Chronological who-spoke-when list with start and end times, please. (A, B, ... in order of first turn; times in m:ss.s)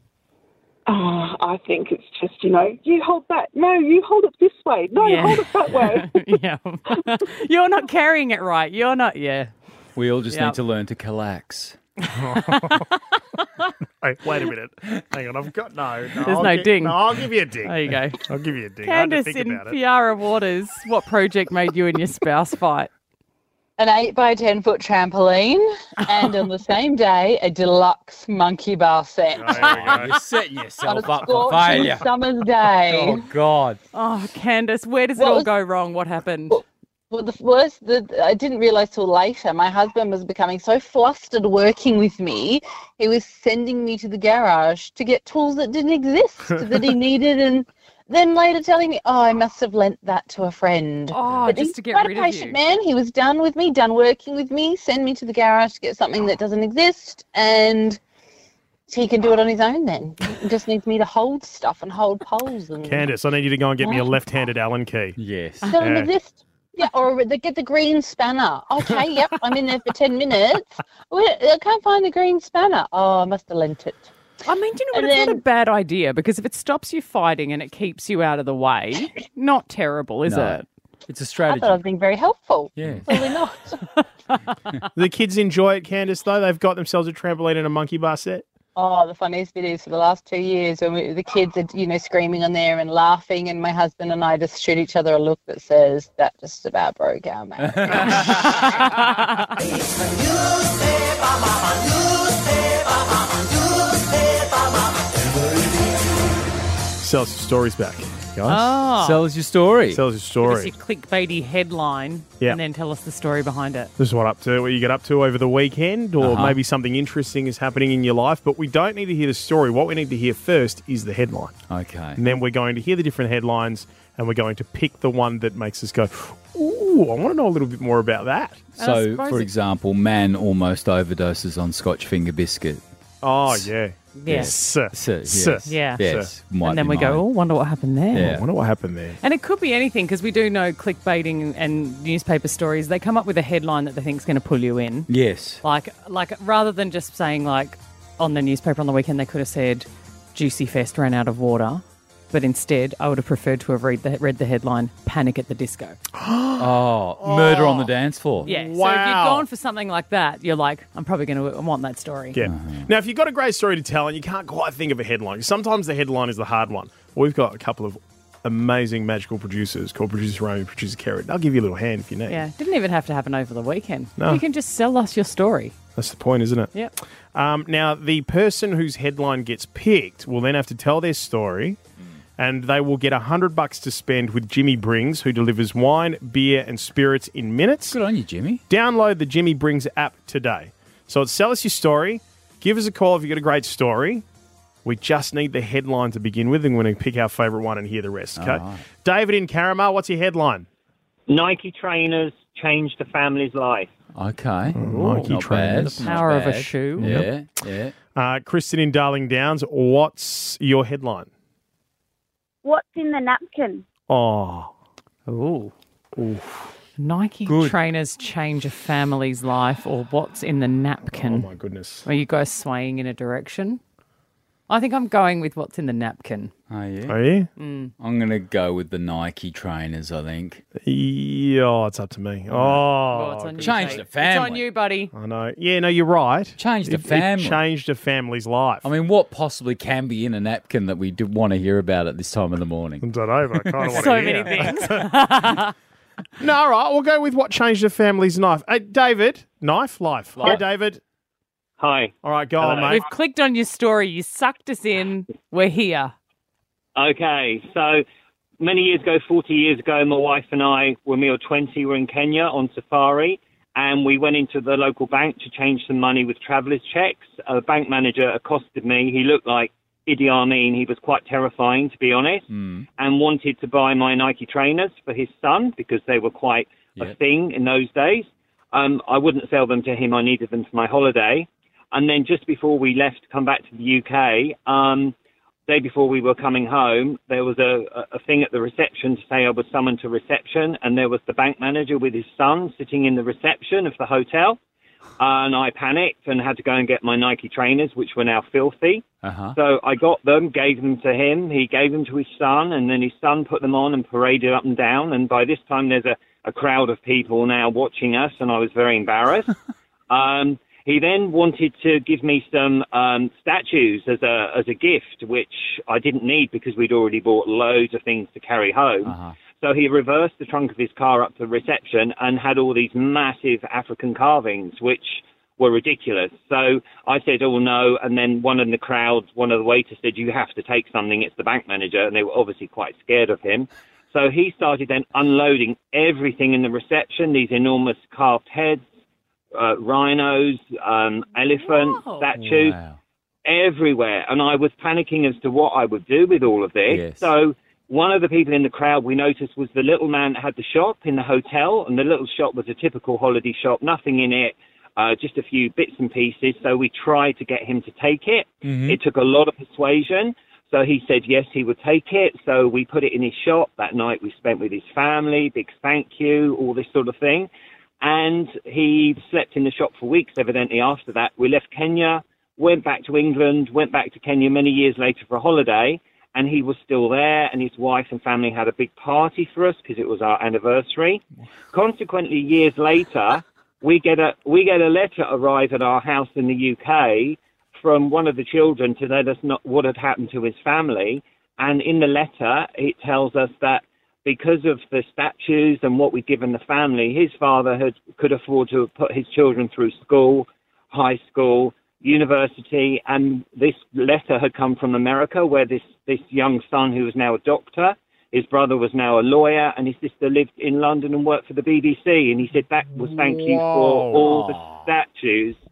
0:00.9-0:06.2 A
0:05.0-0:09.5 B
0:10.0-0:11.8 C
0:10.3-0:10.6 B
0:12.2-0:12.9 D
0:12.3-0:12.8 B
0:14.0-0:19.8 D
0:16.2-0:17.0 B
0:17.6-0:18.2 B
0:18.8-0:22.9 B
0:23.8-0:30.0 E
0:29.4-0:30.2 D
0:29.5-0:30.0 B
0:29.6-0:32.1 C
0:30.8-0:33.3 E
0:32.6-0:33.8 C
0:33.9-0:36.6 B
0:35.2-0:35.5 E
0:37.1-0:58.0 E
0:51.1-0:52.6 B
0:58.9-1:03.1 E
1:02.8-1:05.2 D
1:03.8-1:04.1 E
1:05.2-1:05.8 C
1:05.7-1:14.0 E
1:05.8-1:06.1 D
1:14.4-1:20.6 B
1:14.9-1:15.4 E
1:20.2-1:21.8 C
1:21.4-1:23.8 E
1:22.8-1:23.1 C
1:24.9-1:28.4 D
1:28.7-1:38.7 E
1:37.6-1:38.7 C
1:38.2-1:39.5 B
1:39.8-1:44.7 F
1:47.0-1:48.8 D
1:48.4-1:49.2 B
1:49.0-1:50.0 C
1:49.9-1:50.7 D
1:50.4-1:53.9 B
1:54.0-2:01.6 D
1:56.2-1:56.6 C
2:01.7-2:02.2 C
2:02.2-2:08.8 D
2:08.8-2:12.8 C
2:08.8-2:09.5 B
2:13.2-2:16.3 D
2:14.2-2:14.5 B
2:14.3-2:17.2 C
2:15.6-2:16.0 B
2:16.6-2:18.4 B
2:18.1-2:18.4 C
2:18.2-2:19.2 D
2:19.2-2:25.1 B
2:25.1-2:25.6 C
2:25.6-2:36.0 B
2:36.1-2:39.4 D
2:36.6-2:38.5 C
2:38.4-2:42.4 B
2:42.3-2:52.4 D
2:42.4-2:42.9 C
2:52.3-2:55.8 B
2:54.2-2:54.4 D
2:56.0-2:56.7 D
2:57.3-3:01.8 D
3:02.4-3:08.0 D
3:07.9-3:08.6 C
3:08.7-3:14.2 D
3:14.8-3:20.7 D
3:18.4-3:18.9 C
3:21.3-3:23.9 G
3:24.1-3:27.9 C
3:24.7-3:26.2 D
3:24.8-3:27.2 B
3:27.0-3:27.3 D
3:28.1-3:31.3 D
3:32.6-3:33.8 F
3:34.1-3:34.7 D
3:35.3-3:35.7 B
3:36.2-3:36.7 D
3:37.0-3:41.5 B
3:37.5-3:37.8 C
3:41.1-3:42.1 D
3:42.0-3:43.8 B
3:44.7-3:46.5 B
3:46.7-3:47.2 C
3:47.1-3:47.5 D
3:47.6-3:47.9 B
3:48.0-3:50.6 C
3:50.8-3:54.0 D
3:52.5-3:52.9 C
3:53.1-3:55.1 B
3:53.6-3:54.6 C
3:55.1-3:58.9 D
3:56.6-3:57.6 C
3:58.8-4:03.0 C
4:03.0-4:05.1 D
4:03.6-4:04.8 C
4:03.9-4:05.7 B
4:06.4-4:11.0 D
4:11.8-4:12.9 G
4:12.2-4:13.0 D
4:12.9-4:16.1 B
4:17.0-4:18.0 G
4:18.6-4:45.1 G
4:32.5-4:32.8 C
4:45.7-4:54.6 G
4:55.2-5:09.5 G
4:59.2-4:59.6 C
5:10.1-5:38.8 G
5:19.0-5:19.4 C
5:39.5-5:42.8 G
5:41.6-5:42.3 B
5:42.4-5:43.0 C
5:43.4-6:07.5 G
5:46.9-5:47.3 C
5:58.6-5:59.0 C
6:08.0-6:55.6 G
6:52.9-6:54.3 D
6:54.2-6:54.8 C